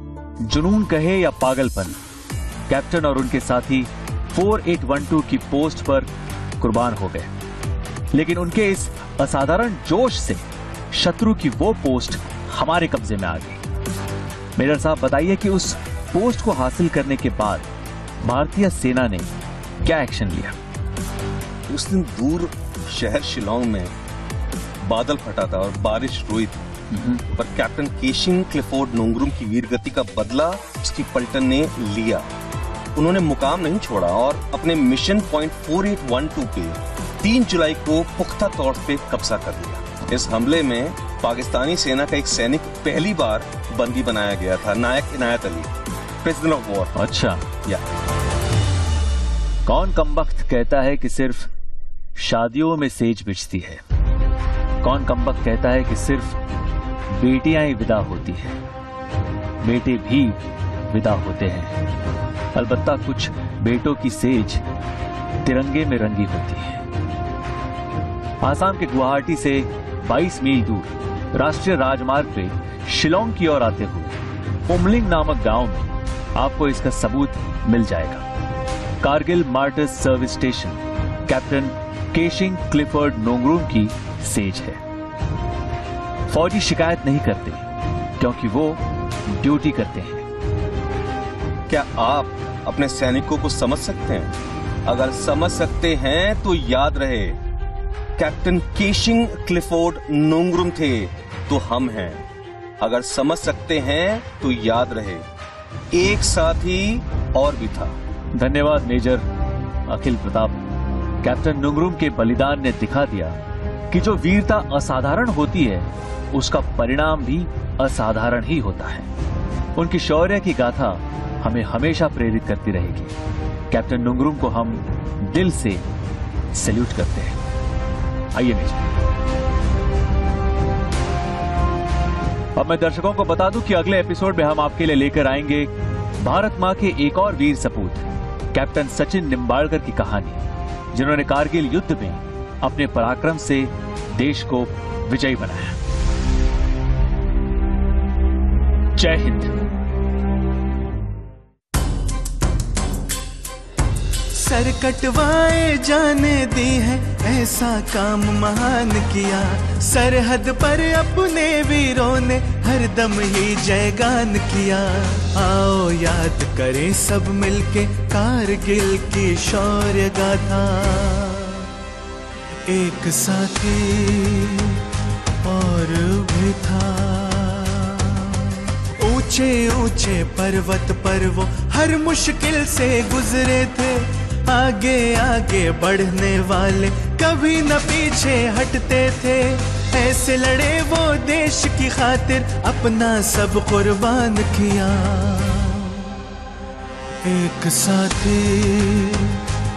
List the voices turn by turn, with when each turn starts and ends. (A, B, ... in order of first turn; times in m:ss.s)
0:00.4-0:02.0 A
0:02.7-0:06.1 A
0:06.6-0:07.3 A
0:08.1-0:13.6 A
0:14.6-0:17.7 A
0:18.2-0:19.3 A
0:19.8-0:20.6 A
0:21.7-0:23.9 B
0:24.8-0:26.7 B
0:26.9-0:27.2 A
0:27.3-0:32.3 B
0:33.0-0:45.7 B
0:46.2-0:47.0 B
0:47.0-0:47.4 A
0:49.7-0:51.5 A
0:52.2-0:53.8 A
0:54.8-0:56.4 A
0:57.1-0:58.6 A
0:59.6-1:01.8 A
1:02.6-1:04.6 A
1:05.4-1:06.8 A
1:08.4-1:14.2 A
1:14.7-1:18.2 A
1:19.0-1:24.8 A
1:26.3-1:27.6 A
1:28.2-1:30.3 A
1:31.7-1:34.3 B
1:34.9-1:37.4 B
1:38.2-1:42.2 B
1:42.8-1:45.2 B
1:45.9-1:48.0 B
1:48.4-1:49.2 A
1:49.9-1:50.6 A
1:51.2-1:53.4 A
1:53.9-1:59.1 A
1:59.8-2:03.1 A
2:03.7-2:05.8 A
2:06.5-2:07.4 A
2:08.3-2:08.9 A
2:12.6-2:25.8 A
2:29.0-2:29.5 A
2:34.3-2:51.7 C
2:52.7-2:54.8 C
2:55.4-3:16.1 C
3:17.2-3:19.4 C